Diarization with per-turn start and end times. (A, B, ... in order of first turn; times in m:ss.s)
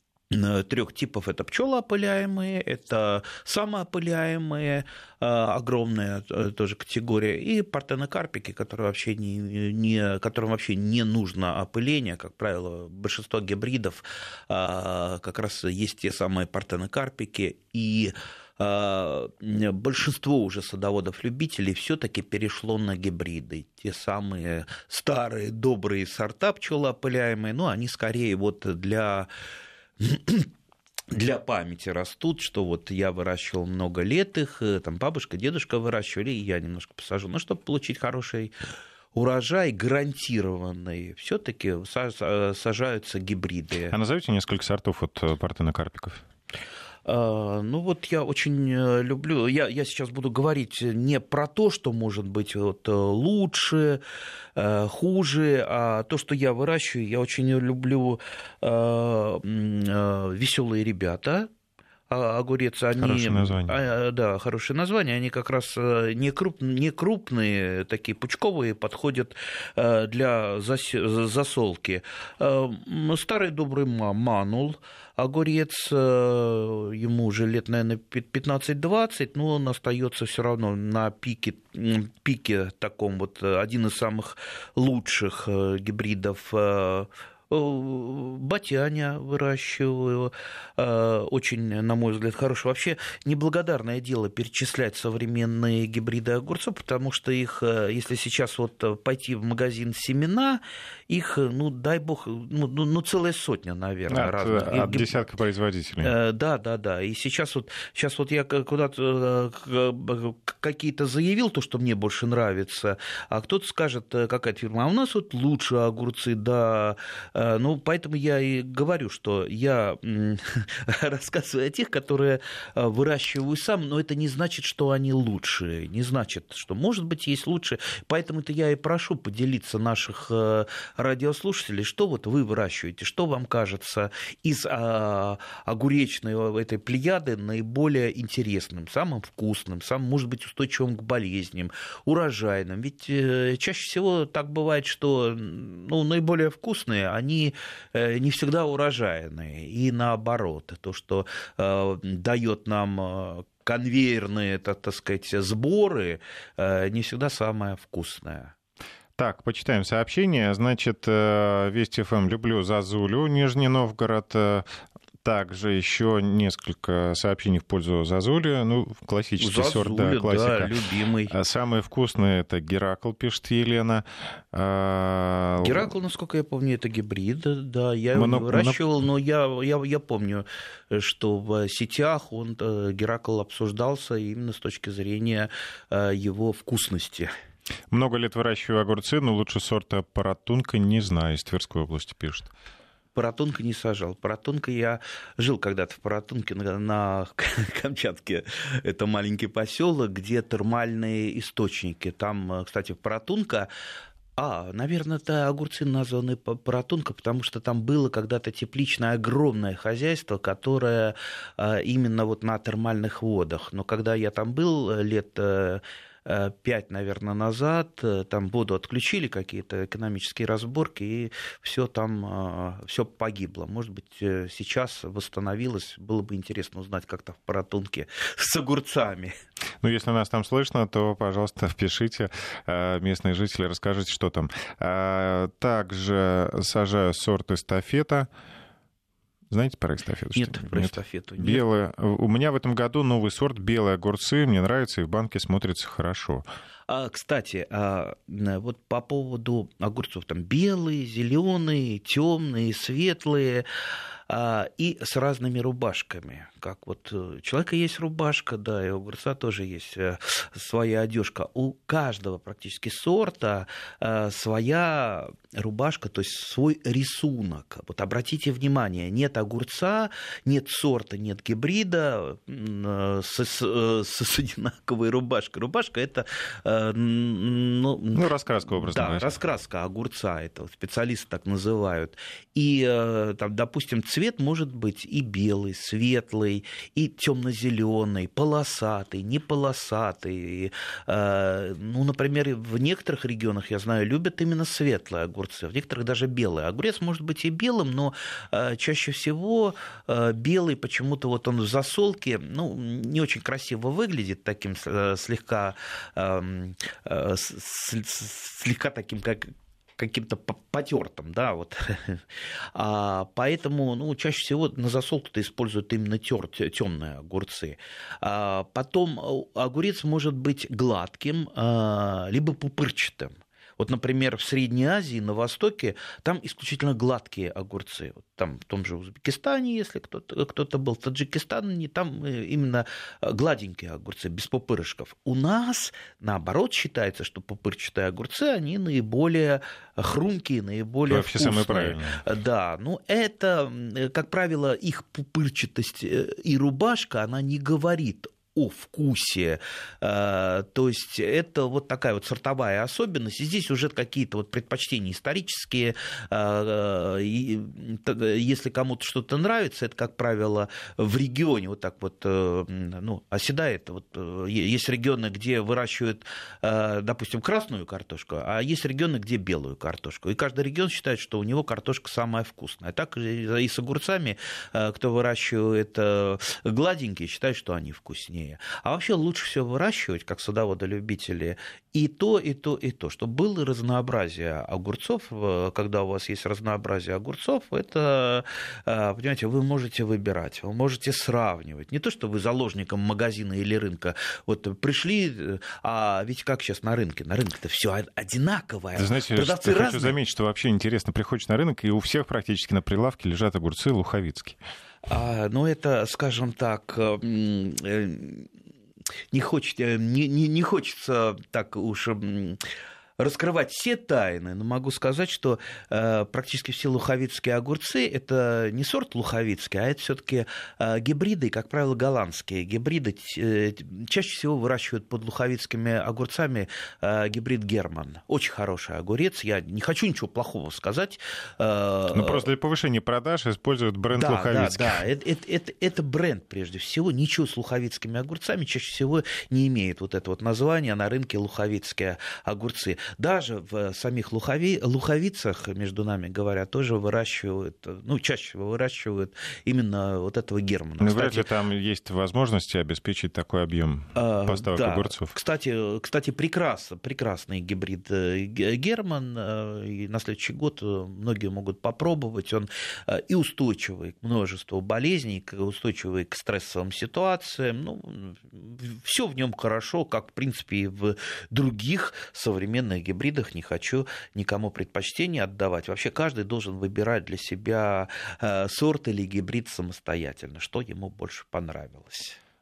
0:00.3-0:29.3 A
0:30.0-0:30.5 A
0:31.1-0:38.5 A
0:39.1-0:44.0 A
0:43.9-0:46.2 B
0:47.1-0:54.0 A
0:54.6-1:01.5 A
1:02.1-1:45.2 A
1:03.0-1:03.8 B
1:44.1-1:46.1 B
1:46.0-2:38.6 A
2:39.2-2:44.7 B
2:45.2-2:50.7 B
2:49.4-2:51.4 A
2:51.3-2:55.9 B
2:55.6-3:07.3 A
2:58.2-2:58.9 B
3:07.9-3:12.5 B
3:13.2-3:23.7 A
3:24.4-3:49.3 A
3:49.8-3:58.3 B
3:59.5-4:06.4 B
4:00.3-4:01.6 A
4:06.9-4:13.7 A
4:14.3-6:40.2 A
4:38.1-4:39.3 B
5:41.1-5:42.2 B
6:39.0-6:44.6 B
6:45.1-6:48.5 A
6:49.3-6:52.6 A
6:53.2-7:12.5 A
7:12.1-7:15.0 B
7:14.1-7:31.5 A
7:31.0-7:35.4 B
7:34.2-8:02.4 A